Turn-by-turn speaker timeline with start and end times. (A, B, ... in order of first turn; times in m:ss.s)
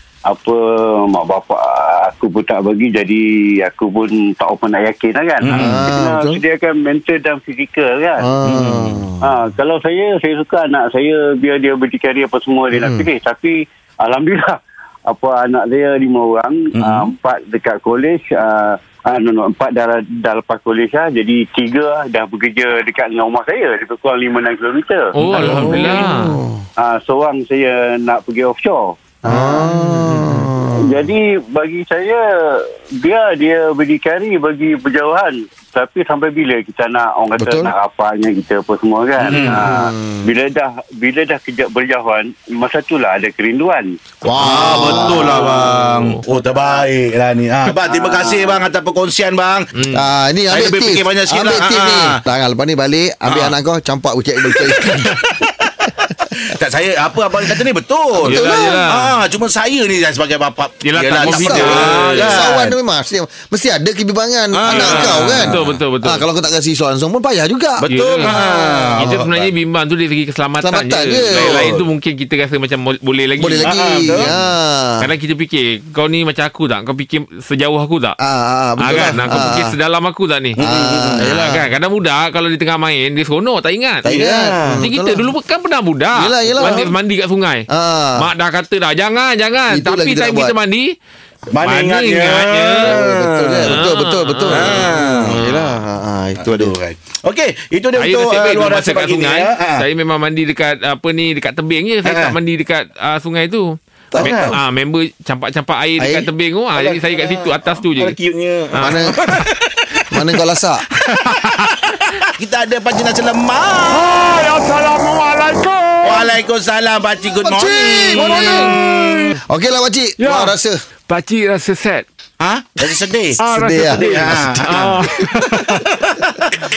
0:00.3-0:08.5 A
0:05.4-0:05.7 B
0:05.5-0:06.4 C
0:08.2-0:09.3 C
0:08.5-0:09.0 B
0:09.2-0:26.1 A
0:12.8-0:13.0 C
0:16.7-0:17.1 B
0:25.1-0:26.4 D
0:25.4-0:26.6 C
0:26.8-0:29.7 A
0:29.3-0:31.0 C
0:29.7-0:30.5 D
0:30.7-0:43.9 A
0:37.4-0:37.7 C
0:39.2-0:40.2 C
0:39.3-0:39.7 B
0:44.2-0:45.5 C
0:44.4-0:49.7 B
0:44.4-0:46.2 D
0:44.7-0:45.5 A
0:46.3-0:46.9 A
0:47.8-0:48.6 A
0:49.8-0:50.1 D
0:49.9-0:55.2 C
0:50.5-0:52.2 B
0:53.3-0:53.6 B
0:54.5-0:55.7 B
0:56.5-1:02.8 B
0:58.2-0:58.8 C
0:58.2-0:59.1 D
1:00.8-1:02.4 D
1:01.3-1:08.3 C
1:04.5-1:05.8 B
1:04.7-1:06.2 D
1:07.8-1:09.5 B
1:07.9-1:14.3 D
1:10.6-1:11.6 C
1:11.3-1:11.8 B
1:13.4-1:15.1 C
1:13.6-1:14.4 B
1:15.0-1:18.2 D
1:18.2-1:19.8 C
1:18.8-1:20.6 D
1:20.6-1:21.3 B
1:20.6-1:21.7 C
1:21.2-1:24.1 D
1:24.0-1:24.8 B
1:24.0-1:25.3 C
1:24.8-1:30.9 D
1:26.1-1:26.9 C
1:27.7-1:28.3 C
1:29.7-1:30.6 C
1:31.5-1:33.8 B
1:31.6-1:33.0 D
1:32.8-1:36.8 C
1:33.6-1:35.6 D
1:34.5-1:35.5 B
1:36.4-1:39.8 B
1:38.0-1:48.2 D
1:42.1-1:42.3 B
1:44.1-1:44.6 C
1:44.2-1:44.5 B
1:46.0-1:46.3 C
1:46.8-1:47.3 B
1:48.0-1:49.8 B
1:48.8-1:49.1 D
1:48.8-1:49.2 C
1:50.1-1:50.8 C
1:51.3-1:51.6 D
1:52.4-1:54.0 B
1:53.9-1:56.3 D
1:56.0-1:59.3 B
1:57.4-1:58.8 C
1:58.1-1:58.8 D
1:59.4-2:00.8 C
2:00.2-2:00.5 D
2:01.1-2:02.1 D
2:02.4-2:03.3 B
2:03.4-2:05.7 D
2:03.5-2:04.6 C
2:04.0-2:06.5 B